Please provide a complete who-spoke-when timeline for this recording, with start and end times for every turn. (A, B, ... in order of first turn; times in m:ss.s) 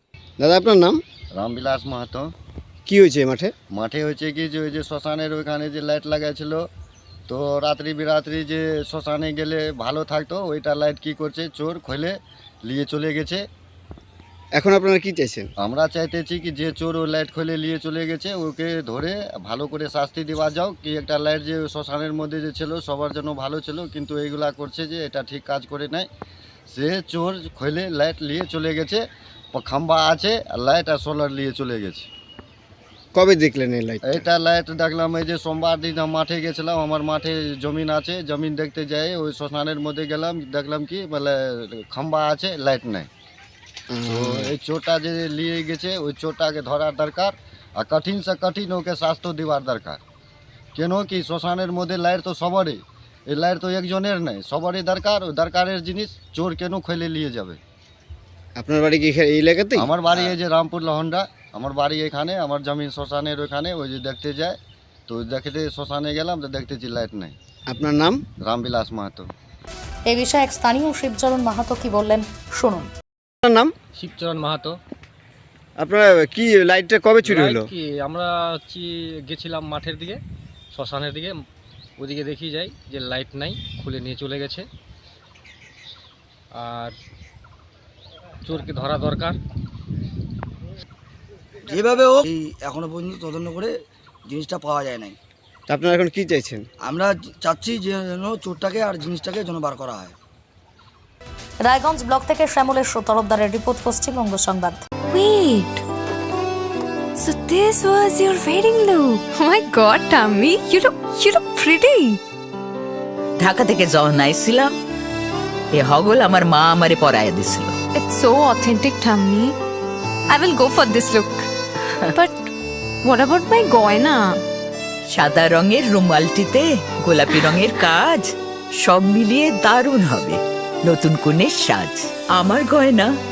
0:00.4-0:01.0 A
0:01.3-0:02.3 B
0:02.9-0:03.5 A
0:03.7-0:06.6 B
0:07.3-0:13.4 B
0:14.6-0:15.5 A
0:15.6-0:26.1 B
0:26.7-0:29.0 B
0:29.5-0:32.1 B
0:33.2-0:34.2 A
0:34.1-0:43.1 B
0:43.9-0:44.5 A
0:44.1-0:50.0 B
0:50.8-0:57.6 B
0:58.6-1:00.3 A
0:59.8-1:04.6 B
1:05.1-1:07.4 B
1:07.7-1:08.2 A
1:08.4-1:09.3 B
1:10.1-1:12.9 C
1:13.4-1:13.7 A
1:14.0-1:14.8 D
1:15.8-1:17.7 A
1:17.2-1:20.2 D
1:20.7-1:21.4 D
1:22.0-1:24.7 D
1:26.6-1:27.0 D
1:28.4-1:29.4 D
1:31.7-1:33.7 E
1:34.3-1:35.2 E
1:35.7-1:36.6 A
1:36.8-1:40.2 E
1:41.6-1:44.8 C
1:45.1-1:45.8 F
1:47.2-1:52.2 F
1:53.4-1:54.7 G
1:55.7-1:57.8 G
1:58.0-1:59.6 F
2:00.3-2:01.5 F
2:02.2-2:02.5 F
2:03.0-2:04.4 F
2:05.1-2:08.3 G
2:08.8-2:13.1 G